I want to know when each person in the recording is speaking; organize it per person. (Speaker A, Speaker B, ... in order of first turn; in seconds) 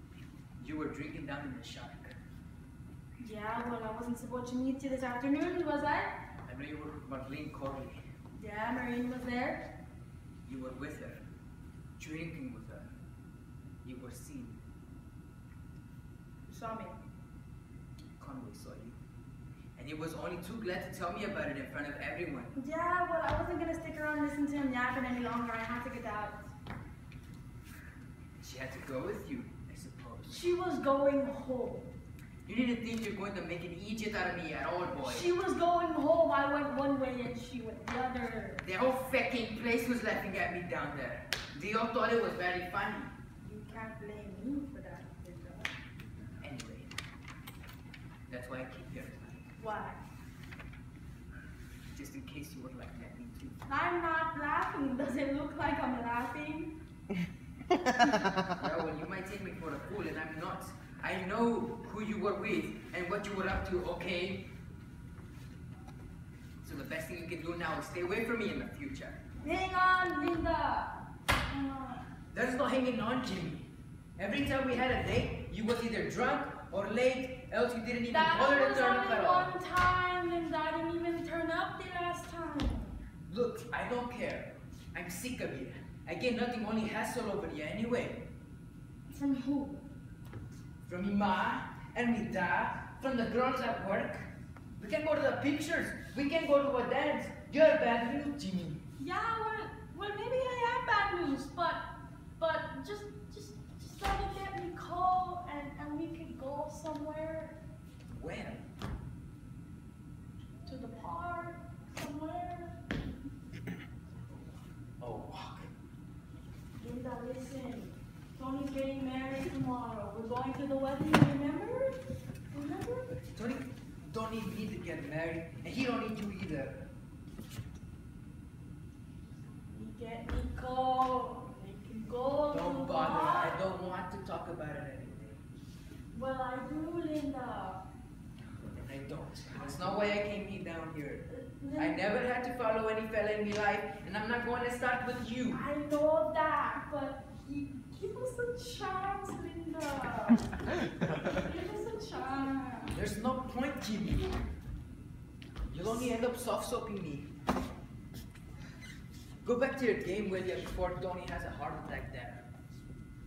Speaker A: 0.6-2.2, 6.5-8.1, 10.4-11.2, 12.0-12.9, 13.8-14.6, 18.2-19.0, 19.8-22.5, 28.4-30.4, 32.5-35.3, 38.6-43.1, 46.4-46.9, 48.3-49.4, 51.9-53.6, 58.4-64.5, 66.6-69.2, 72.3-79.5, 83.3-88.3, 90.8-98.8, 108.1-108.7, 115.0-115.7, 123.3-126.9, 132.5-135.4, 138.7-145.6, 152.9-154.3, 155.7-157.3, 159.4-162.5
Speaker B: 3.2-6.1, 8.3-9.6, 16.5-16.9, 22.5-26.5, 30.3-31.9, 35.0-38.6, 43.4-45.7, 49.6-50.0, 53.7-56.7, 69.4-72.1, 78.1-83.0, 89.1-89.8, 99.0-101.8, 102.4-107.6, 110.7-112.8, 116.8-122.0, 122.5-123.2, 129.7-133.6, 136.1-137.8, 141.3-142.0, 145.5-152.9